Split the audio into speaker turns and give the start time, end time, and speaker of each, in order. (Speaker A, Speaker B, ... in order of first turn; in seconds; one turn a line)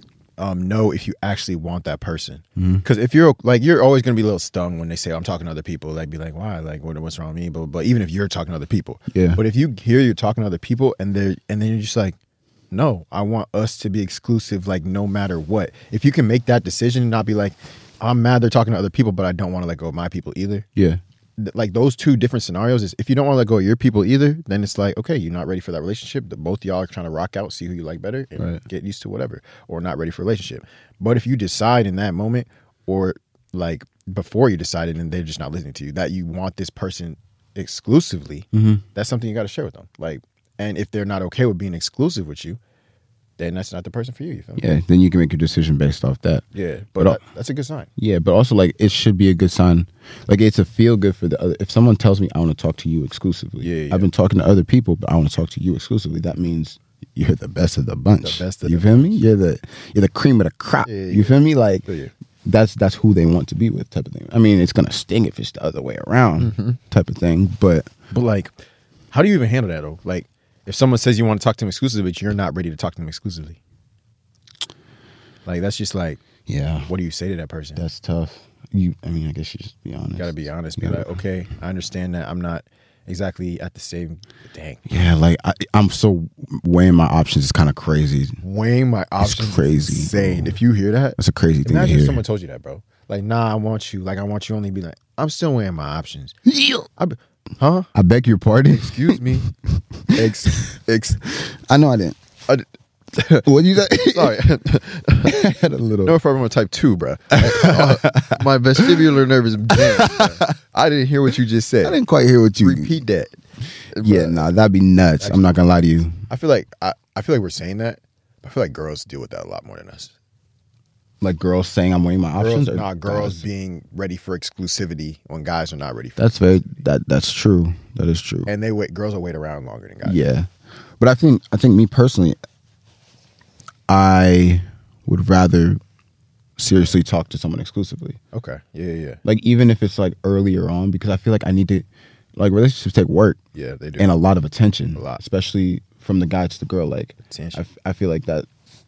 Speaker A: 0.4-12.2
Speaker B: 2.6-2.8
Speaker B: 9.1-9.4
Speaker A: 12.7-20.7
Speaker B: 20.8-21.0
Speaker A: 21.4-42.6
Speaker B: 38.5-38.8
Speaker A: 43.4-44.8
Speaker B: 44.6-46.4
Speaker A: 46.5-47.9
Speaker B: 48.0-61.9
Speaker A: 53.6-54.1
Speaker A: 58.2-59.2
Speaker A: 60.8-62.1
Speaker B: 62.4-67.9
Speaker A: 66.4-66.8
Speaker A: 68.1-68.5
Speaker A: 69.1-73.6
Speaker A: 75.5-76.2
Speaker B: 76.5-76.9
Speaker A: 76.9-77.8
Speaker B: 77.8-81.2
Speaker A: 80.2-84.8
Speaker B: 84.9-88.4
Speaker A: 88.4-96.3
Speaker B: 89.2-90.6
Speaker B: 91.2-92.2
Speaker B: 96.5-96.9
Speaker A: 97.0-97.9
Speaker B: 97.9-99.4
Speaker A: 98.7-99.5
Speaker A: 100.1-101.2
Speaker B: 101.4-102.2
Speaker A: 102.5-105.4
Speaker B: 103.5-104.3
Speaker B: 105.2-106.1
Speaker A: 106.0-112.0
Speaker B: 107.4-109.0
Speaker B: 109.7-110.5
Speaker B: 111.8-112.9
Speaker A: 112.6-113.3
Speaker A: 113.9-114.5
Speaker B: 114.0-116.1
Speaker A: 115.2-115.5
Speaker A: 116.3-120.1
Speaker B: 121.2-123.4
Speaker A: 122.4-126.3
Speaker B: 126.2-128.5
Speaker A: 128.5-130.2
Speaker B: 130.0-130.5
Speaker B: 131.0-132.4
Speaker B: 133.9-135.8
Speaker B: 136.6-138.2
Speaker A: 138.3-139.2
Speaker B: 139.2-141.8
Speaker B: 142.4-143.4
Speaker A: 143.6-144.2
Speaker B: 144.0-148.5
Speaker A: 144.9-145.2
Speaker A: 147.3-147.6